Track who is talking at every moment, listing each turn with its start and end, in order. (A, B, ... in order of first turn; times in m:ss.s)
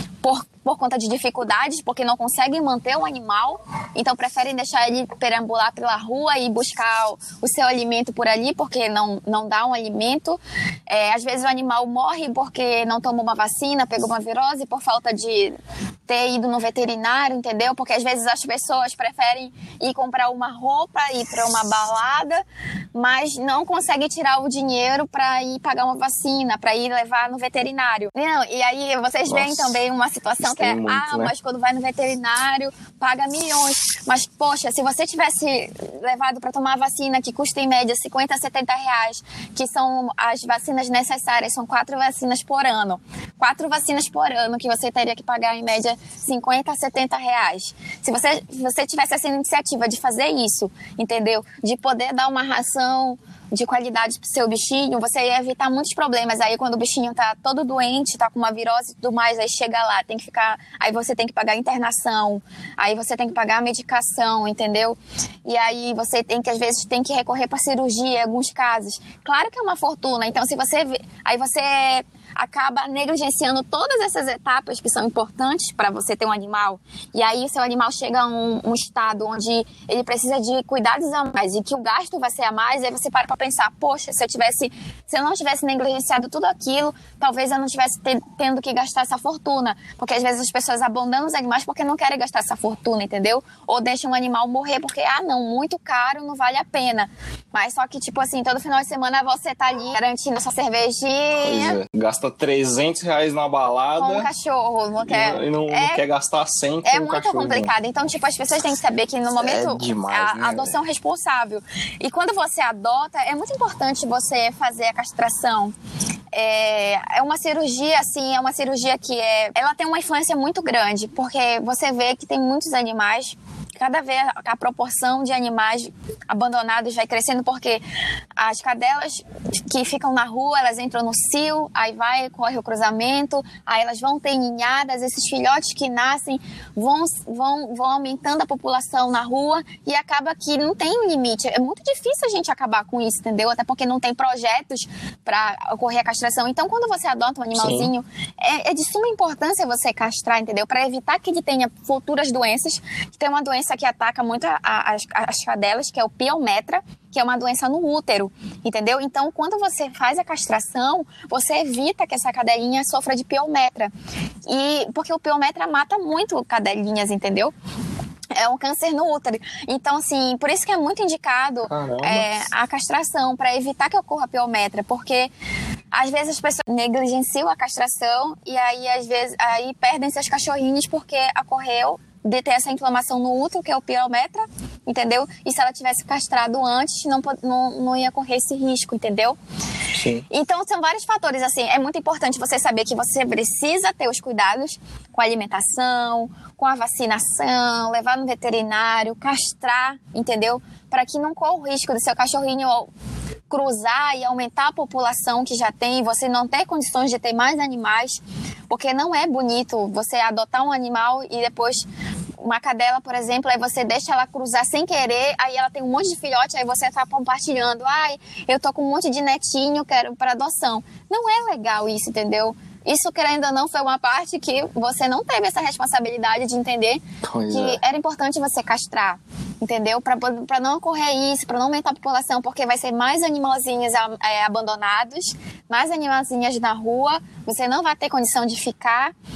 0:00.2-0:15.6 A
0:16.1-0:22.4 A
0:22.9-1:41.8 A
0:29.3-0:29.8 B
0:30.4-0:31.3 B
1:41.4-1:44.3 B
1:44.0-1:46.0 A
1:45.0-1:47.7 B
1:46.8-1:55.7 A
1:49.4-1:50.8 B
1:56.3-2:07.8 A
2:08.4-2:43.9 A
2:27.5-2:27.9 B
2:44.5-2:47.5 A
2:48.4-2:55.3 A
2:51.7-2:52.5 B
2:55.9-3:09.4 A
3:10.0-3:10.3 B
3:10.3-3:22.9 A
3:23.5-3:31.9 A
3:32.4-3:59.1 A
3:47.2-3:47.8 B